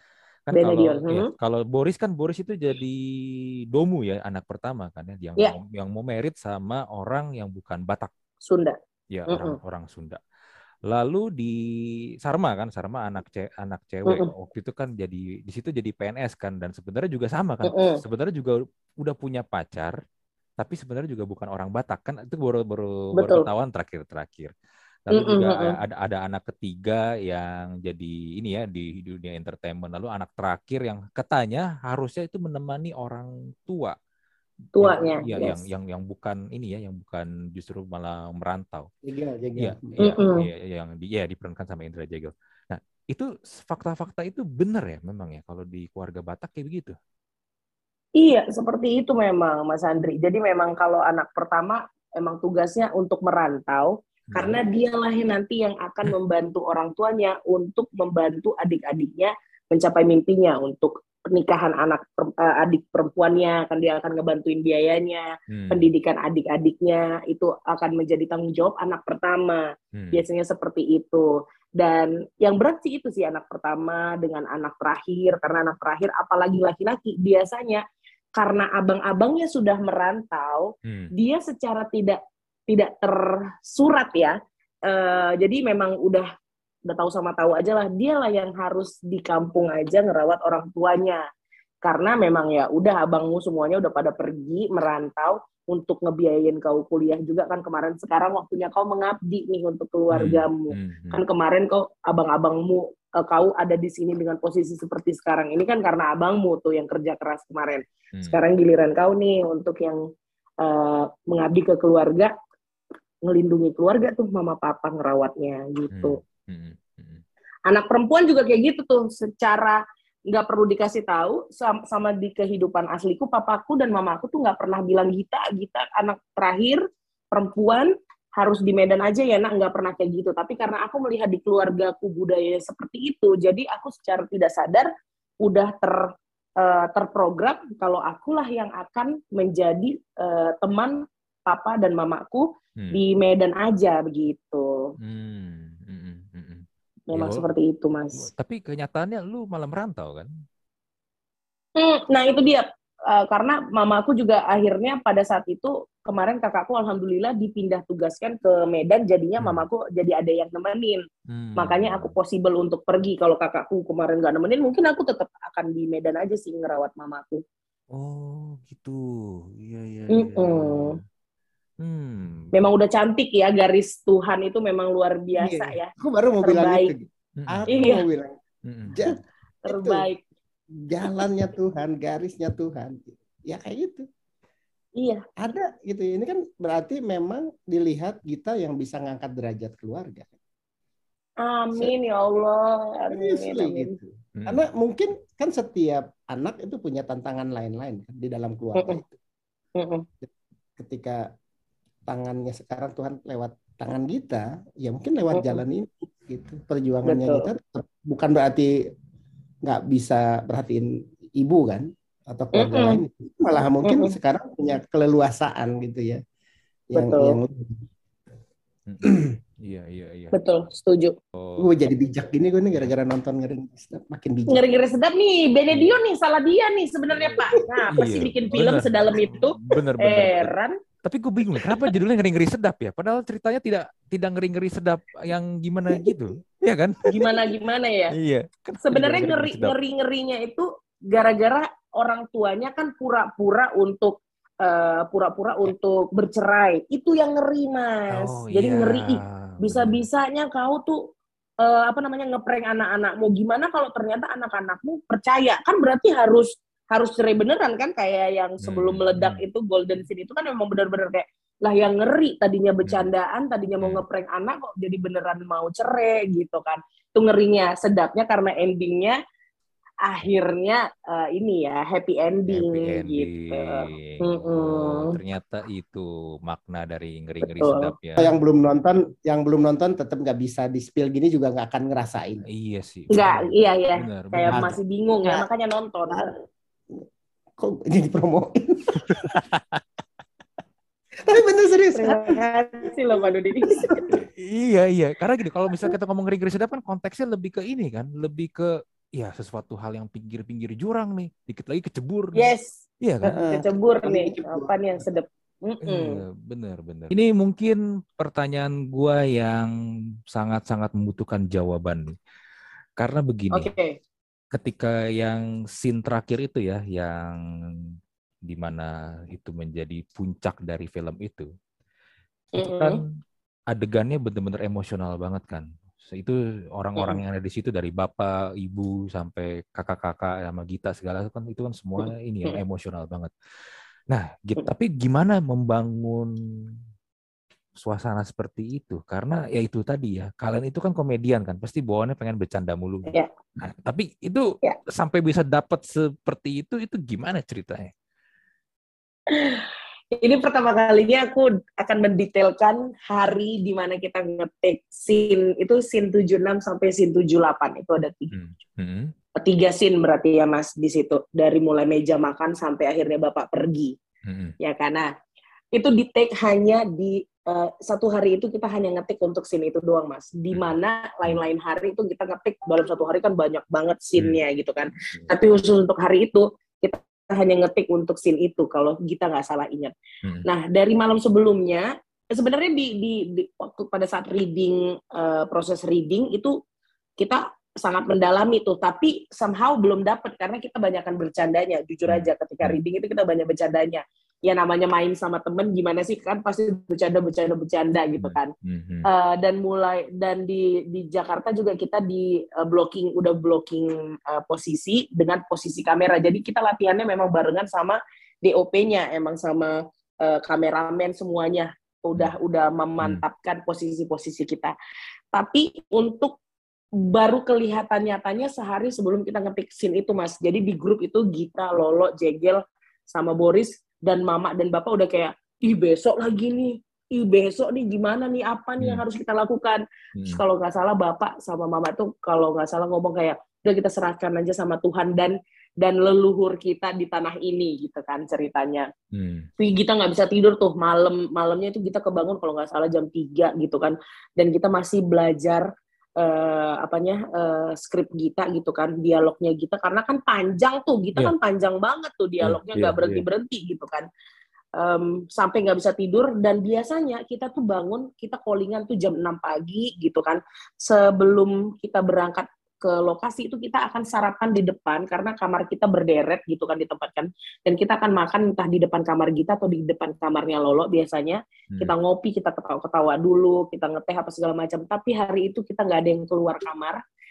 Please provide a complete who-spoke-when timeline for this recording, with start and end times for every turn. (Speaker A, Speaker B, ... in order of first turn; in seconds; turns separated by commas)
Speaker A: 0.5-8.1, Speaker B: 0.5-1.3, Speaker B: 8.5-8.8, Speaker A: 9.1-10.2, Speaker B: 9.3-9.6, Speaker A: 10.9-11.6, Speaker A: 12.2-19.9, Speaker B: 17.6-18.0, Speaker A: 20.6-24.5, Speaker B: 23.1-23.5, Speaker A: 25.1-34.0, Speaker B: 25.1-25.8, Speaker B: 34.8-35.6, Speaker A: 34.8-38.9, Speaker C: 39.0-40.2, Speaker A: 39.6-47.0, Speaker B: 40.0-40.5, Speaker B: 48.2-77.8, Speaker A: 54.3-54.6, Speaker A: 65.5-65.9, Speaker A: 69.9-70.2, Speaker B: 78.4-86.3, Speaker A: 80.8-81.1, Speaker B: 86.9-91.2, Speaker B: 91.8-110.0, Speaker A: 100.1-101.2, Speaker B: 110.6-112.3, Speaker B: 113.3-116.2, Speaker A: 115.9-117.2, Speaker B: 117.7-119.8, Speaker B: 120.3-134.9, Speaker B: 135.4-144.9, Speaker A: 145.0-147.5, Speaker B: 147.1-148.3, Speaker A: 148.1-150.3, Speaker B: 151.8-161.0, Speaker A: 159.4-159.7, Speaker A: 161.3-162.2, Speaker B: 161.6-167.4, Speaker A: 167.9-171.0, Speaker B: 170.1-171.0, Speaker A: 171.8-172.5, Speaker B: 172.5-175.9, Speaker C: 175.4-178.4, Speaker B: 176.4-176.9, Speaker A: 177.4-177.9, Speaker B: 177.7-178.0, Speaker A: 178.7-179.1, Speaker C: 178.9-180.1, Speaker B: 179.7-180.2, Speaker C: 180.8-184.1, Speaker C: 185.4-190.3, Speaker B: 191.4-193.9, Speaker C: 193.1-199.2, Speaker A: 194.4-194.6, Speaker B: 198.8-199.0, Speaker B: 199.8-200.1, Speaker C: 200.2-201.2, Speaker C: 202.1-208.7, Speaker B: 205.3-205.6, Speaker B: 207.1-207.5, Speaker C: 209.6-216.2, Speaker B: 212.5-213.0, Speaker B: 213.8-214.2, Speaker C: 216.9-217.8, Speaker B: 216.9-217.4, Speaker A: 218.9-220.3, Speaker B: 220.3-221.2, Speaker A: 221.4-221.7, Speaker C: 221.6-224.6, Speaker B: 224.5-230.8, Speaker A: 225.7-226.0, Speaker A: 227.1-230.5, Speaker A: 231.0-237.5, Speaker C: 235.9-236.2, Speaker B: 237.1-238.2, Speaker A: 238.1-239.8, Speaker B: 238.8-251.0, Speaker A: 248.1-250.0, Speaker B: 251.6-269.2, Speaker A: 258.6-259.4, Speaker B: 270.1-275.2, Speaker A: 272.5-278.3, Speaker B: 277.4-277.9, Speaker C: 278.2-282.4, Speaker A: 282.5-284.8, Speaker B: 283.1-286.2, Speaker C: 287.6-289.2, Speaker A: 289.0-289.8, Speaker C: 291.2-292.4, Speaker B: 291.9-294.1, Speaker C: 293.7-294.2, Speaker A: 294.1-302.5, Speaker B: 302.4-306.2, Speaker A: 303.0-303.4, Speaker C: 303.3-304.7, Speaker A: 305.8-309.7, Speaker A: 310.3-312.1, Speaker A: 313.0-313.7, Speaker B: 313.5-314.0, Speaker A: 314.5-317.9, Speaker A: 318.5-321.5, Speaker A: 322.5-323.1, Speaker B: 322.6-323.0, Speaker A: 323.7-333.3, Speaker B: 332.0-332.6, Speaker A: 334.1-336.7, Speaker A: 337.8-347.9, Speaker B: 349.3-358.4, Speaker A: 358.3-359.1, Speaker B: 359.4-363.9, Speaker A: 364.2-364.6, Speaker B: 364.6-365.1, Speaker B: 365.7-379.9, Speaker B: 380.4-386.6, Speaker B: 387.2-398.5, Speaker A: 392.1-392.8, Speaker A: 398.2-399.1, Speaker B: 399.1-414.7, Speaker B: 415.3-416.4, Speaker B: 417.0-438.9, Speaker A: 439.1-439.5, Speaker B: 439.6-445.7, Speaker B: 446.2-454.1, Speaker A: 452.4-453.2, Speaker B: 454.8-477.0